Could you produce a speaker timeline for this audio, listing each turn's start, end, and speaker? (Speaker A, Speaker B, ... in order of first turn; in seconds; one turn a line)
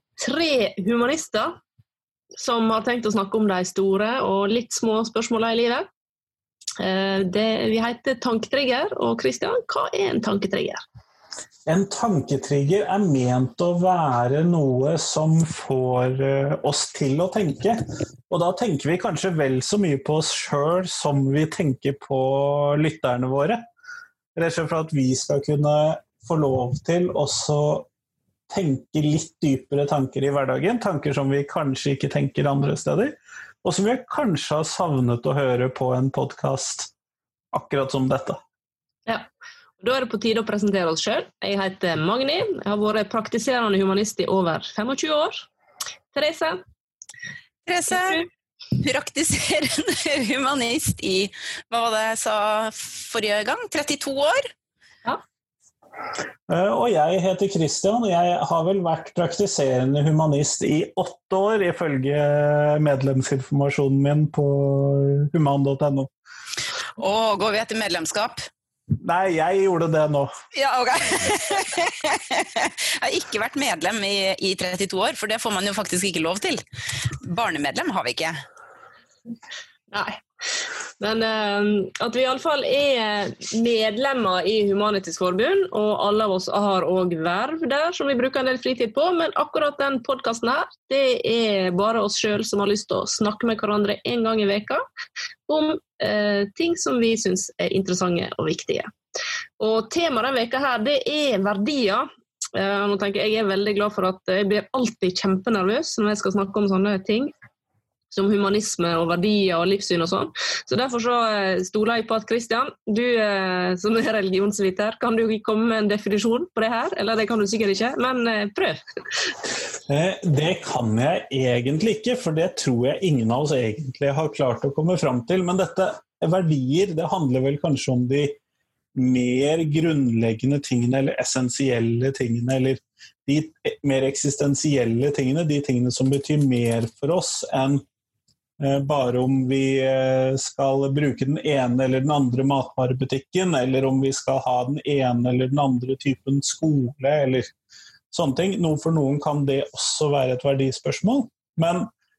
Speaker A: 0.2-1.6
Speaker A: 2.4-5.9
Speaker A: 6.8-10.8
Speaker B: 11.7-23.6
Speaker B: 24.4-27.9
Speaker B: 28.5-36.9
Speaker B: 37.5-38.4
Speaker A: 39.8-45.5
Speaker A: 46.1-46.6
Speaker C: 47.7-48.2
Speaker A: 47.9-48.2
Speaker C: 48.8-54.5
Speaker B: 56.5-66.1
Speaker C: 67.0-68.4
Speaker B: 69.0-70.3
Speaker C: 70.5-76.6
Speaker C: 77.2-78.4
Speaker A: 79.9-80.2
Speaker A: 81.0-94.8
Speaker A: 95.5-98.9
Speaker A: 99.6-107.3
Speaker A: 108.1-118.8
Speaker B: 119.9-128.4
Speaker B: 129.0-137.8
Speaker B: 138.6-147.5
Speaker B: 148.1-151.9